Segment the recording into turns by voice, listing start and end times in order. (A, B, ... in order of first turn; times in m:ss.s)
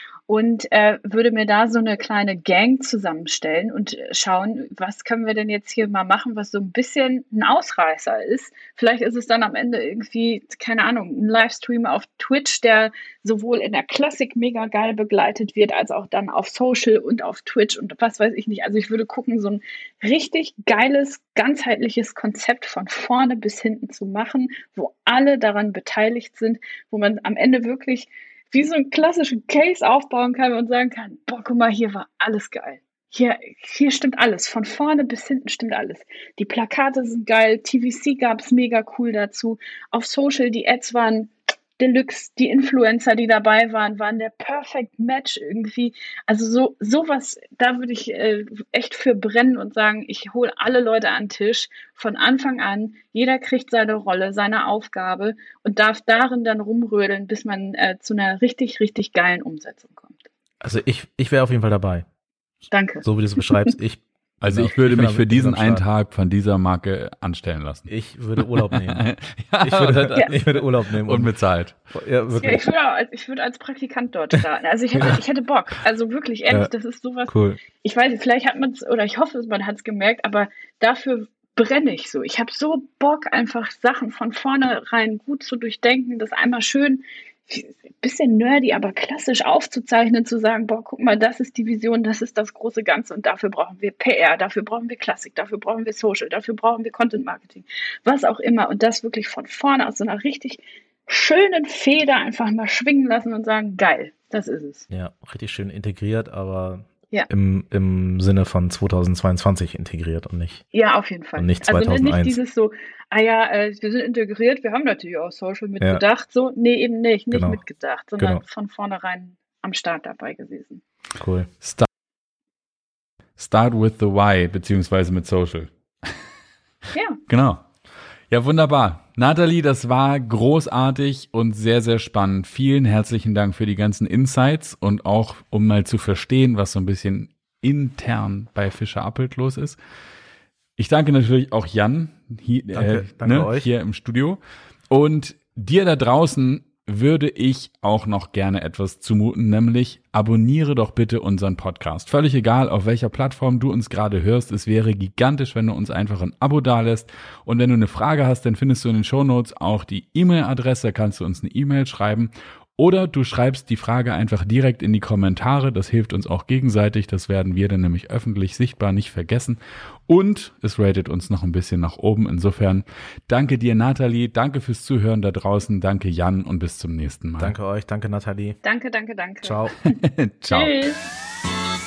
0:00.3-1:00.3 A
1:00.6-1:02.0 B
1:02.7-1:03.7 A
1:03.0-1:05.8 B
1:04.4-1:11.8 C
1:07.9-1:09.0 B
1:09.6-1:11.3 B
1:11.9-1:12.7 B
1:12.4-1:44.8 A
1:17.3-1:17.6 B
1:44.9-1:50.6 B
1:50.7-2:00.8 A
1:51.4-1:52.4 B
1:57.3-1:57.6 B
2:01.2-2:01.5 B
2:01.6-2:01.9 C
2:03.4-2:06.1 C
2:06.9-2:07.2 A
2:07.3-2:07.7 C
2:08.3-2:19.8 C
2:20.8-2:24.4 C
2:22.7-2:23.7 B
2:24.9-2:57.5 C
2:57.4-2:58.6 B
2:58.6-2:59.8 A
2:59.4-2:59.7 B
2:59.9-3:00.7 C
3:00.5-3:01.0 A